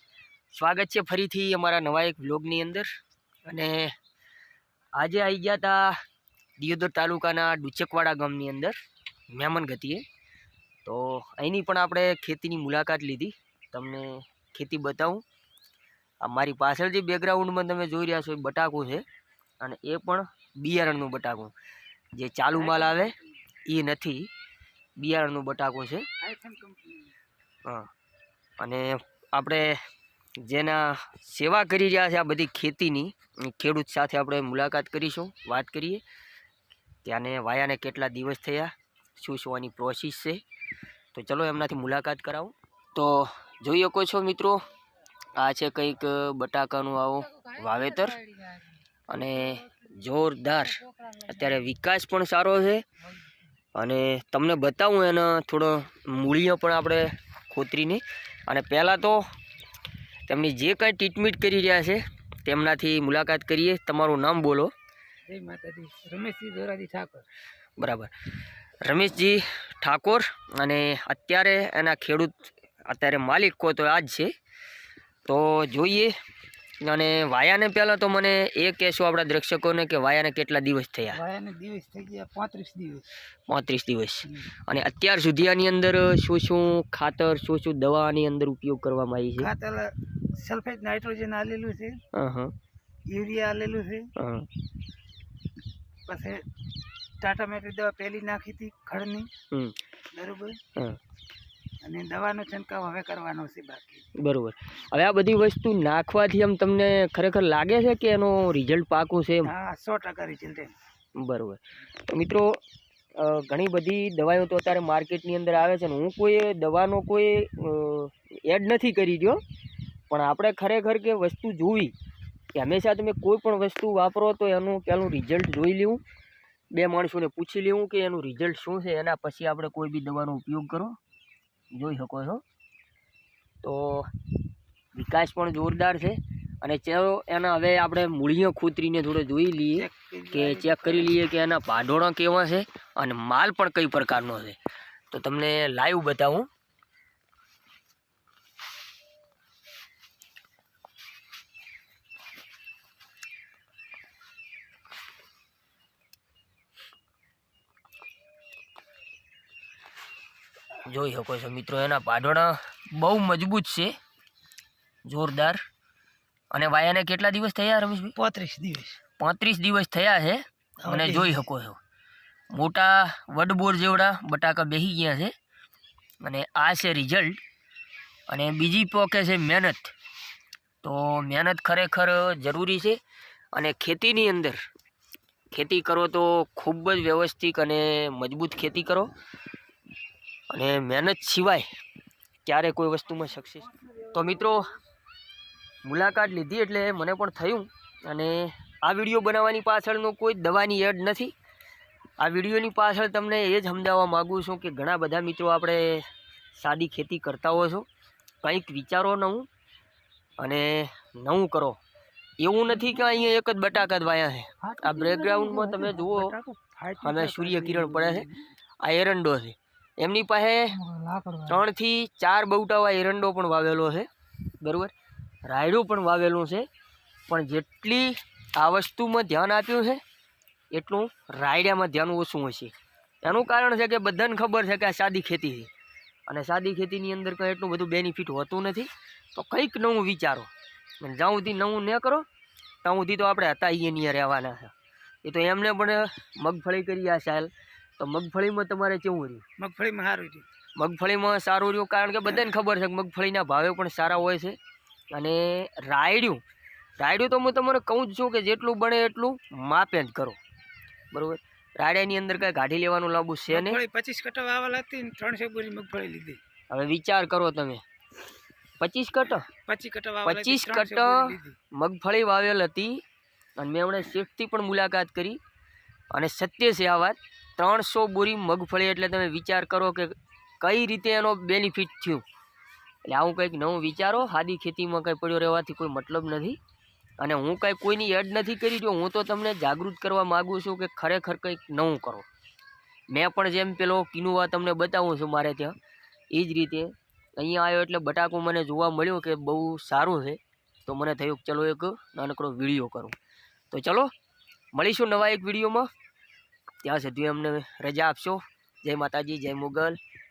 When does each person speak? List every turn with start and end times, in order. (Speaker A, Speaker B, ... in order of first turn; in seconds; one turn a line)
Speaker A: 0.5-2.9
Speaker A: 3.5-3.9
Speaker A: 5.0-6.0
Speaker A: 6.6-8.8
Speaker A: 9.3-10.1
Speaker A: 10.8-15.2
Speaker A: 16.2-19.0
Speaker A: 19.6-21.5
Speaker A: 22.2-23.1
Speaker B: 22.5-23.2
Speaker A: 23.7-24.3
Speaker A: 25.0-26.1
Speaker B: 26.2-27.1
Speaker A: 28.6-29.8
Speaker A: 30.4-36.0
Speaker A: 37.0-40.4
Speaker A: 41.1-44.6
Speaker A: 45.4-48.4
Speaker A: 49.1-52.9
Speaker A: 53.8-59.3
Speaker A: 60.3-64.7
Speaker B: 65.3-67.3
Speaker A: 67.8-68.1
Speaker A: 68.8-74.3
Speaker A: 75.3-76.1
Speaker A: 76.8-81.2
Speaker B: 81.1-83.1
Speaker A: 83.5-89.5
Speaker B: 89.4-92.0
Speaker A: 92.1-92.5
Speaker B: 93.1-94.1
Speaker A: 94.2-94.5
Speaker B: 96.1-96.5
Speaker B: 97.2-99.3
Speaker A: 99.5-99.8
Speaker B: 100.1-100.6
Speaker B: 101.8-104.1
Speaker A: 104.2-109.5
Speaker B: 109.4-110.8
Speaker A: 111.2-112.6
Speaker A: 113.2-119.4
Speaker A: 120.1-121.9
Speaker A: 122.5-126.0
Speaker A: 126.7-131.0
Speaker A: 131.8-132.4
Speaker A: 133.6-134.1
Speaker A: 134.9-144.6
Speaker B: 139.8-141.1
Speaker A: 145.1-146.5
Speaker A: 160.9-163.9
Speaker A: 165.1-165.6
Speaker A: 166.5-168.2
Speaker B: 168.2-169.0
Speaker A: 169.2-171.8
Speaker B: 170.8-171.4
Speaker A: 172.5-175.3
Speaker A: 176.2-177.4
Speaker A: 178.3-179.9
Speaker A: 180.8-183.0
Speaker A: 183.6-184.6
Speaker A: 185.5-189.1
Speaker A: 190.5-191.7
Speaker A: 192.5-194.7
Speaker B: 193.7-194.6
Speaker A: 195.8-201.3
Speaker A: 202.2-207.9
Speaker A: 208.4-209.5
Speaker A: 210.4-211.8
Speaker A: 212.4-216.3
Speaker B: 214.6-218.5
Speaker A: 217.0-218.2
Speaker A: 218.8-220.8
Speaker B: 220.8-221.7
Speaker A: 221.5-224.1
Speaker A: 224.6-224.9
Speaker A: 225.5-226.7
Speaker A: 227.3-230.0
Speaker A: 230.7-235.7
Speaker A: 236.3-240.5
Speaker A: 241.0-242.3
Speaker A: 242.8-244.7
Speaker A: 245.2-249.4
Speaker B: 249.6-250.5
Speaker A: 250.8-254.6
Speaker A: 255.1-256.4
Speaker A: 257.0-260.4
Speaker A: 261.1-263.8
Speaker B: 263.5-266.4
Speaker A: 266.7-267.8
Speaker A: 268.8-269.5
Speaker B: 269.6-271.6
Speaker A: 270.2-273.0
Speaker A: 273.6-275.4
Speaker A: 276.1-282.2
Speaker A: 283.1-286.6
Speaker A: 287.2-292.3
Speaker A: 293.1-295.8
Speaker A: 296.3-303.1
Speaker A: 303.7-304.1
Speaker A: 304.7-305.9
Speaker A: 306.8-310.0